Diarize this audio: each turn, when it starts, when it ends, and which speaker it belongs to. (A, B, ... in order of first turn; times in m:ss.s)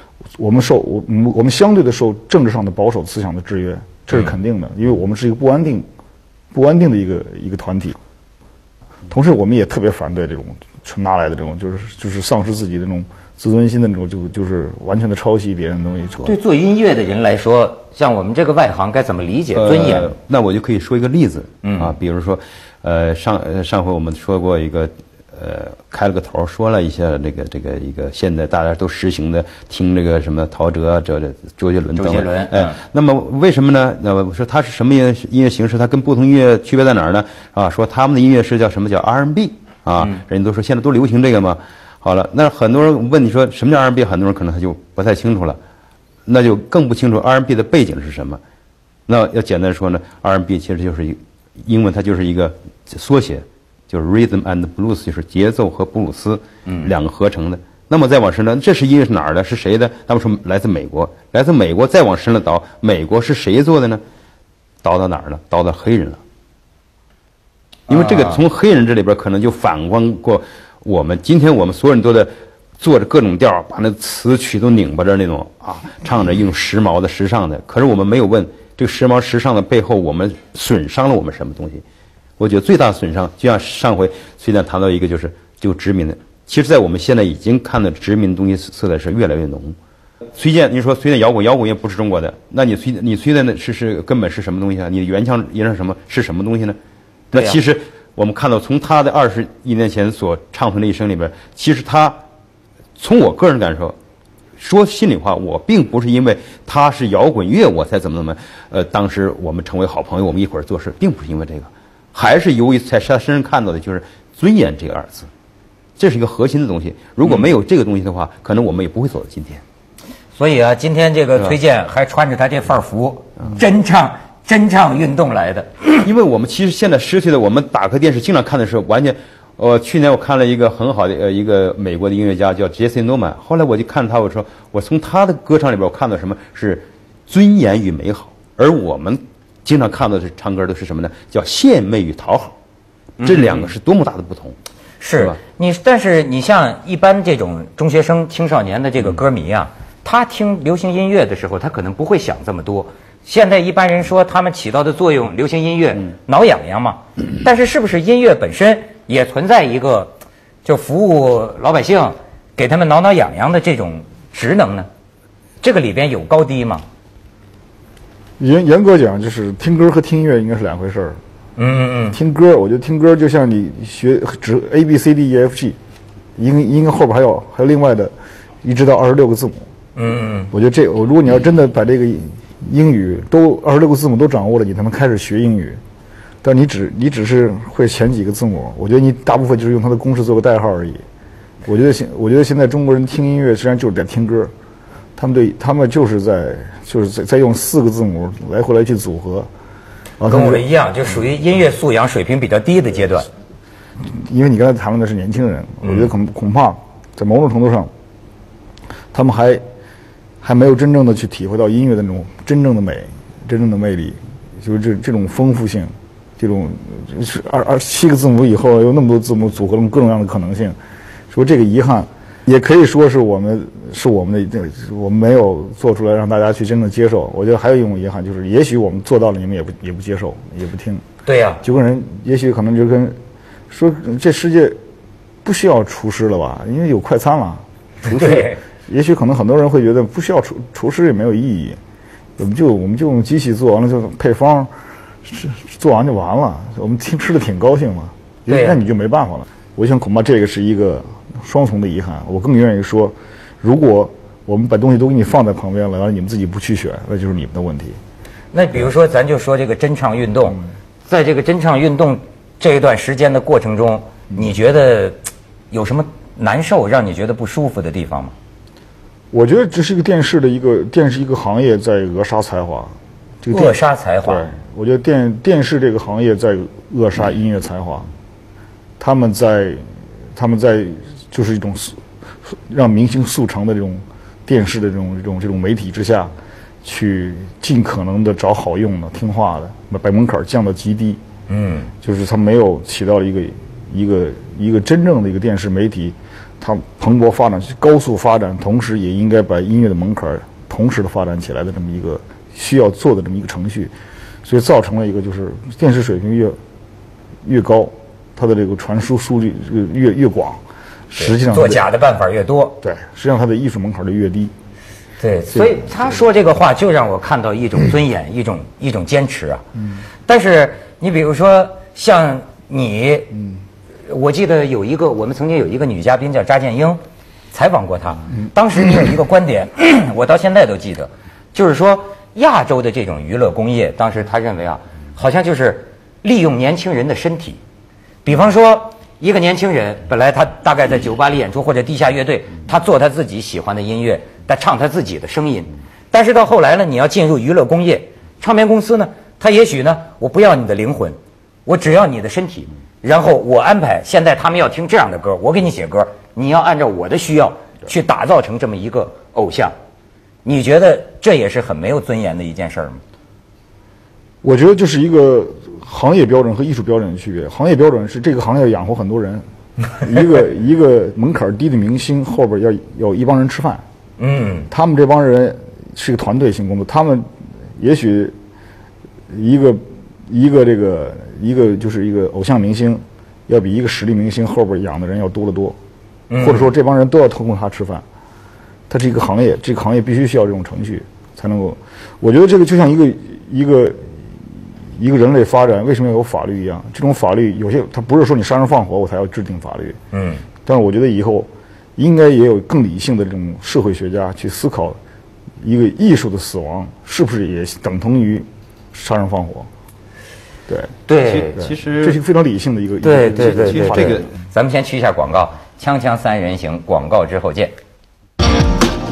0:00.3-0:05.8 A
0:06.5-0:08.0 A
0:09.1-0:16.4 A
0:16.2-0:20.1 B
0:19.6-0:45.6 C
0:21.6-0:21.9 B
0:32.0-0:32.8 B
0:46.3-0:48.4 C
0:49.1-1:04.0 C
1:04.8-1:06.2 C
1:07.9-1:08.4 B
1:07.9-1:21.8 C
1:22.4-1:29.8 C
1:30.4-1:36.8 C
1:37.3-1:42.2 C
1:37.3-1:37.6 B
1:43.0-1:44.0 C
1:44.6-1:55.3 C
1:56.0-1:59.6 C
2:00.4-2:06.0 B
2:06.0-2:22.5 C
2:23.2-2:23.7 B
2:23.2-2:24.6 C
2:25.0-2:44.9 B
2:45.6-2:46.8 B
2:48.4-2:51.2 A
2:51.6-2:52.2 B
2:52.1-2:55.8 A
2:56.4-2:59.7 A
3:00.0-3:00.5 B
3:00.5-3:05.8 A
3:06.4-3:11.0 A
3:11.6-3:14.5 A
3:15.2-3:19.5 A
3:20.2-3:20.6 A
3:20.2-3:23.3 B
3:24.0-3:27.9 A
3:29.1-3:29.6 A
3:30.4-3:40.8 A
3:41.3-3:51.0 A
3:51.2-3:51.6 B
3:51.6-3:53.2 A
3:53.7-3:54.8 A
3:55.4-4:01.8 A
3:58.0-3:58.6 B
4:02.4-4:04.7 A
4:05.2-4:18.0 A
4:08.5-4:08.8 B
4:18.5-4:25.2 B
4:25.7-4:28.3 B
4:29.3-4:38.1 A
4:33.5-4:34.5 B
4:39.0-4:51.2 A
4:51.5-4:51.9 B
4:52.0-5:03.9 A
5:04.4-5:06.6 A
5:07.4-5:11.8 A
5:11.1-5:12.8 B
5:12.8-5:14.5 A
5:15.2-5:19.6 B
5:15.5-5:16.0 A
5:20.2-5:23.3 B
5:23.3-5:23.6 A
5:24.0-5:27.0 B
5:27.5-5:37.6 B
5:38.2-5:59.7 B
6:00.4-6:03.0 B
6:04.4-6:09.4 A
6:09.9-6:13.8 A
6:14.2-6:14.7 B
6:14.7-6:18.3 A
6:19.3-6:25.8 A
6:26.3-6:26.7 B
6:26.4-6:28.0 A
6:28.9-6:40.0 A
6:40.1-6:40.4 B
6:40.6-6:45.0 A
6:45.6-6:49.7 A
6:50.7-6:50.9 A
6:51.1-6:51.6 B
6:51.2-6:52.2 C
6:51.7-6:54.2 A
6:53.0-6:57.7 B
6:53.3-6:54.3 C